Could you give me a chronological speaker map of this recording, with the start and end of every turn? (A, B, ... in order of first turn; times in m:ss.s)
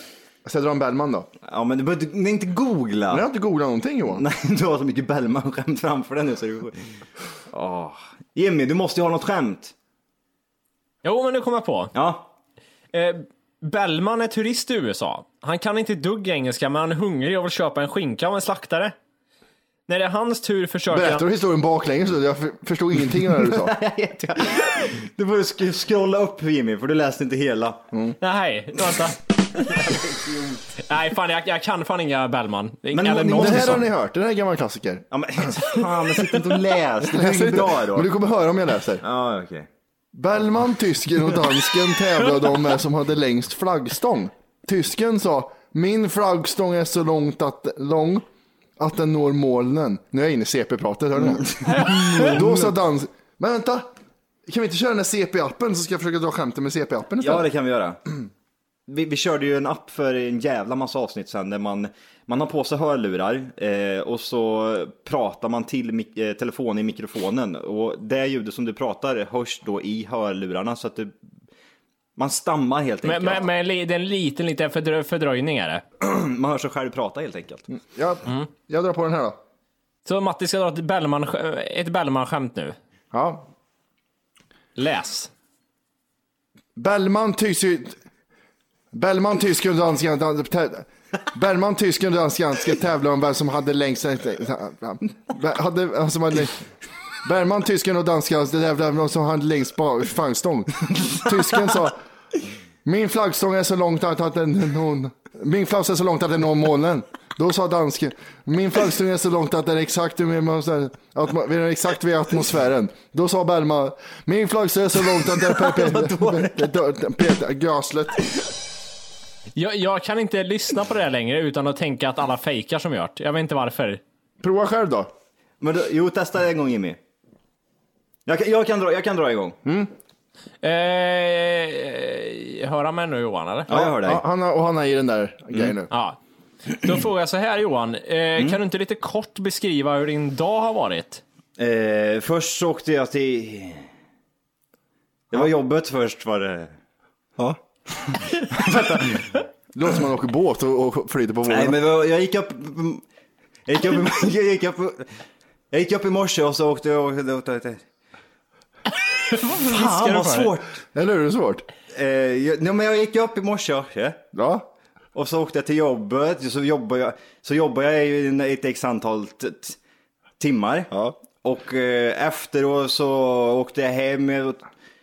0:00.4-0:01.3 A
0:01.4-0:03.2 B
0:03.1-0:04.2 A
0:04.1-0:07.0 B
0:07.5-0:09.7 B
0:11.0-0:11.9 C
0:11.9-0:12.3 B
0:12.9-0:18.9 C
0:19.9-0:21.2 C
0:20.9-0:23.7 A
0:23.4-0:27.8 B
0:27.9-0:28.2 A
0:28.2-0:29.2 C
0:29.6-0:30.6 B
0:30.8-0:33.8 C
0:32.9-0:33.8 B
0:33.3-0:35.5 A
0:35.1-0:38.1 B
0:37.0-0:39.0 A
0:39.0-0:39.7 B
0:40.1-0:48.2 A
0:48.8-0:51.5 A
0:51.2-0:52.7 B
0:51.6-0:52.4 C
0:52.2-0:53.9 A
0:54.4-0:57.5 A
0:57.2-0:58.0 B
0:58.9-1:11.1 B
1:12.2-1:13.5 B
1:13.0-1:15.8 C
1:16.0-1:17.7 B
1:17.9-1:19.4 A
1:20.0-1:22.8 C
1:23.1-1:23.5 A
1:24.8-1:25.3 C
1:26.8-1:28.0 A
1:28.9-1:36.6 A
1:37.2-1:42.0 A
1:42.8-1:58.3 A
1:55.4-1:56.7 B
1:59.6-2:04.0 C
2:04.4-2:05.1 A
2:05.6-2:07.0 B
2:08.2-2:09.6 B
2:09.6-2:09.9 A
2:10.6-2:13.7 C
2:13.7-2:14.2 B
2:13.7-2:15.9 A
2:15.9-2:16.2 C
2:16.7-2:21.2 C
2:21.6-2:23.9 B
2:25.3-2:26.7 B
2:28.1-2:29.4 B
2:29.7-2:31.8 A
2:31.4-2:33.0 B
2:33.6-2:35.1 B
2:35.7-2:37.8 B
2:39.2-2:40.5 C
2:39.6-2:40.8 B
2:40.9-2:41.7 A
2:41.9-2:44.2 B
2:44.3-2:44.7 A
2:45.1-2:49.8 B
2:50.4-2:54.6 B
2:50.9-2:51.2 A